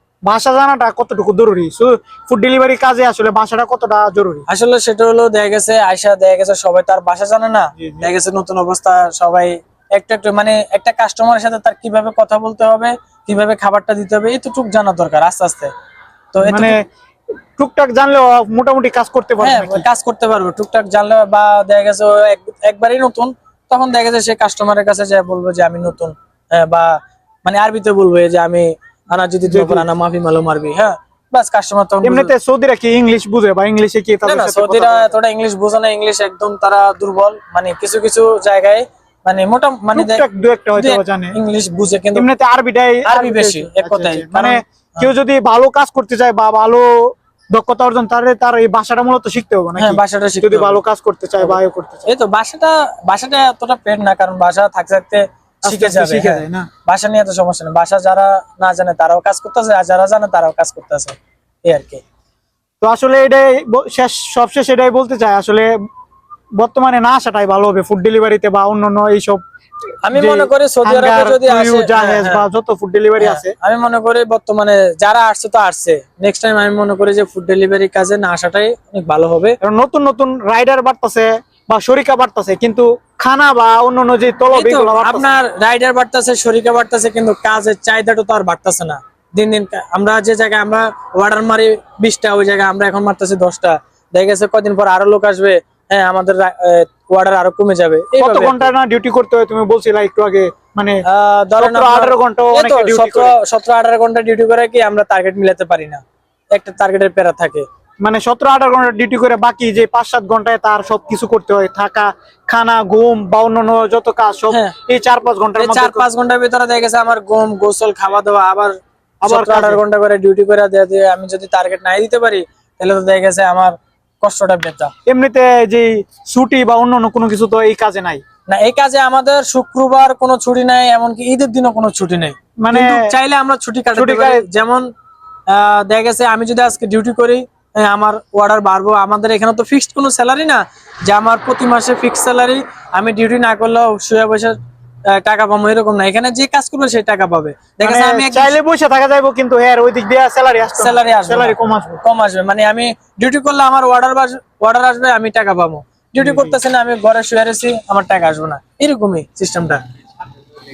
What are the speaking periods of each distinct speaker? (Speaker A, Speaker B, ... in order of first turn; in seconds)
Speaker A: 0.3-4.5, 7.8-8.1, 16.4-16.9, 17.6-19.9, 29.5-29.9, 32.0-35.1, 40.0-41.4, 42.1-52.1, 55.7-56.7, 62.8-65.7, 66.6-69.4, 70.1-73.5, 79.6-85.4, 98.2-101.0, 101.6-103.3, 108.0-116.0, 119.2-119.8, 125.1-128.2, 132.6-133.1, 133.9-134.4, 147.8-152.0, 156.2-156.6
Speaker B: 4.5-15.7, 16.3-16.8, 19.4-32.3, 34.2-40.2, 40.8-42.3, 43.0-45.1, 49.8-50.8, 51.4-62.0, 70.0-72.5, 73.2-79.6, 84.5-98.7, 101.1-106.0, 106.5-107.7, 115.6-124.9, 128.5-134.9, 135.5-148.6, 150.8-159.8